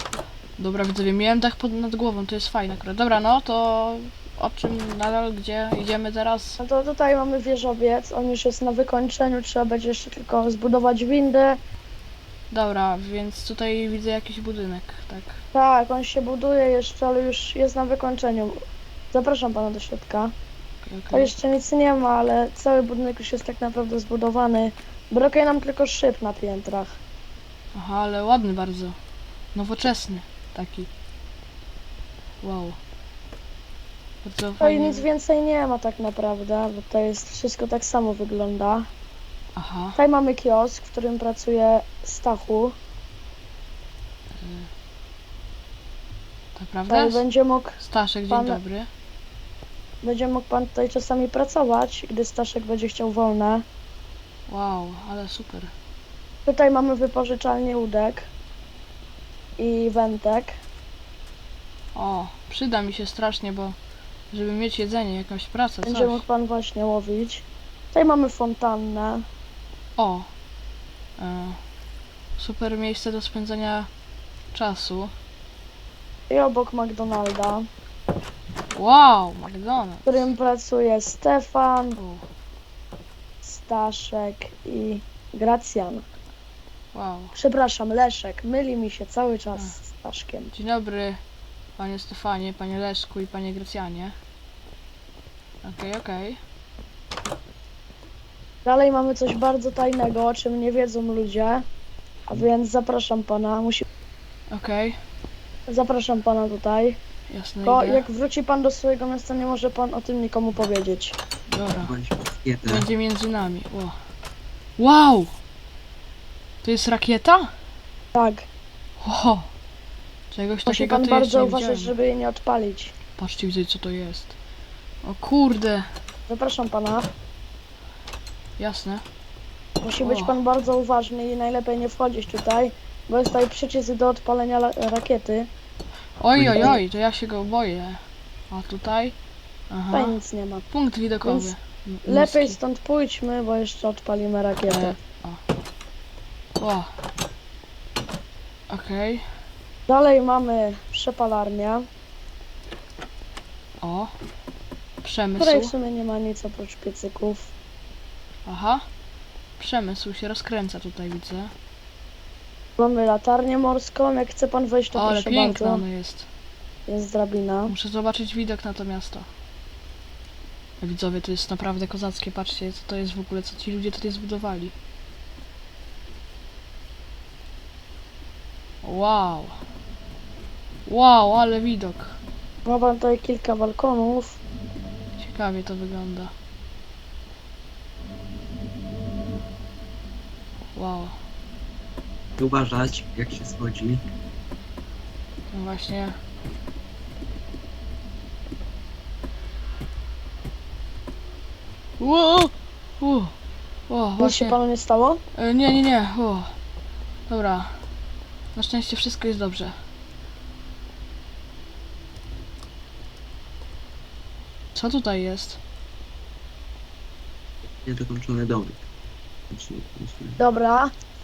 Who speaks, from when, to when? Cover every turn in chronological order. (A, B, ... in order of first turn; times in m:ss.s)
0:00.6-0:06.6 A
0:06.6-0:11.6 B
0:12.5-0:15.4 A
0:15.5-0:18.6 B
0:19.1-0:20.3 B
0:20.8-0:21.3 A
0:21.1-0:27.0 B
0:27.7-0:29.0 A
0:29.5-0:30.9 A
0:32.4-0:32.8 A
0:34.2-0:35.0 A
0:34.6-0:38.9 B
0:39.6-0:40.0 A
0:39.9-0:42.8 B
0:44.4-0:44.7 A
0:46.5-0:47.2 A
0:46.9-0:47.8 B
0:47.8-0:48.9 A
0:48.3-0:48.6 B
0:50.0-0:53.6 B
0:54.5-0:55.7 A
0:56.4-0:58.3 B
0:59.6-1:00.5 B
1:01.9-1:03.8 A
1:04.3-1:06.2 A
1:05.8-1:09.2 B
1:10.0-1:10.3 A
1:11.2-1:11.6 A
1:12.4-1:13.9 A
1:14.5-1:15.1 A
1:16.3-1:17.6 B
1:18.7-1:20.3 A
1:20.0-1:22.0 B
1:22.0-1:22.2 A
1:23.4-1:26.0 B
1:26.9-1:27.3 A
1:27.3-1:30.5 B
1:30.5-1:31.2 A
1:31.8-1:34.2 A
1:35.6-1:36.4 A
1:38.6-1:41.6 B
1:42.3-1:43.8 B
1:44.5-1:45.0 A
1:45.7-1:47.0 B
1:47.3-1:48.0 A
1:47.6-1:51.2 B
1:51.5-1:51.9 A
1:51.8-1:52.8 C
1:52.6-1:53.9 A
1:54.8-1:55.3 A
1:56.6-1:57.5 A
1:58.1-1:58.5 B
1:59.0-1:59.5 A
2:00.3-2:01.9 A
2:00.6-2:02.9 B
2:03.2-2:04.3 A
2:05.0-2:05.9 A
2:06.3-2:07.1 B
2:08.6-2:09.0 A
2:09.8-2:15.5 B
2:10.0-2:10.4 A
2:16.2-2:19.1 A
2:16.3-2:16.8 C
2:16.6-2:16.8 B
2:19.7-2:20.2 A
2:19.9-2:20.6 B
2:20.7-2:22.6 A
2:21.2-2:21.5 B
2:22.0-2:25.0 B
2:24.6-2:25.4 A
2:26.6-2:26.9 A
2:28.7-2:29.2 A
2:29.9-2:31.8 B
2:33.8-2:34.1 A
2:35.0-2:35.7 A
2:35.4-2:37.5 B
2:38.4-2:38.8 A
2:39.6-2:41.5 A
2:42.8-2:45.8 B
2:44.9-2:46.2 A
2:46.9-2:47.7 B
2:47.7-2:49.3 A
2:50.8-2:54.7 A
2:58.8-2:59.6 A
3:00.8-3:02.2 A
3:02.6-3:04.4 B
3:05.2-3:06.3 A
3:10.7-3:11.1 A
3:12.4-3:14.0 C
3:15.5-3:16.2 A
3:22.0-3:23.3 A
3:23.9-3:24.6 A
3:24.2-3:25.2 B
3:25.3-3:26.5 A
3:27.3-3:27.8 A
3:28.5-3:29.8 A
3:34.7-3:35.6 A
3:37.8-3:38.8 C
3:39.5-3:40.4 C
3:40.4-3:40.9 B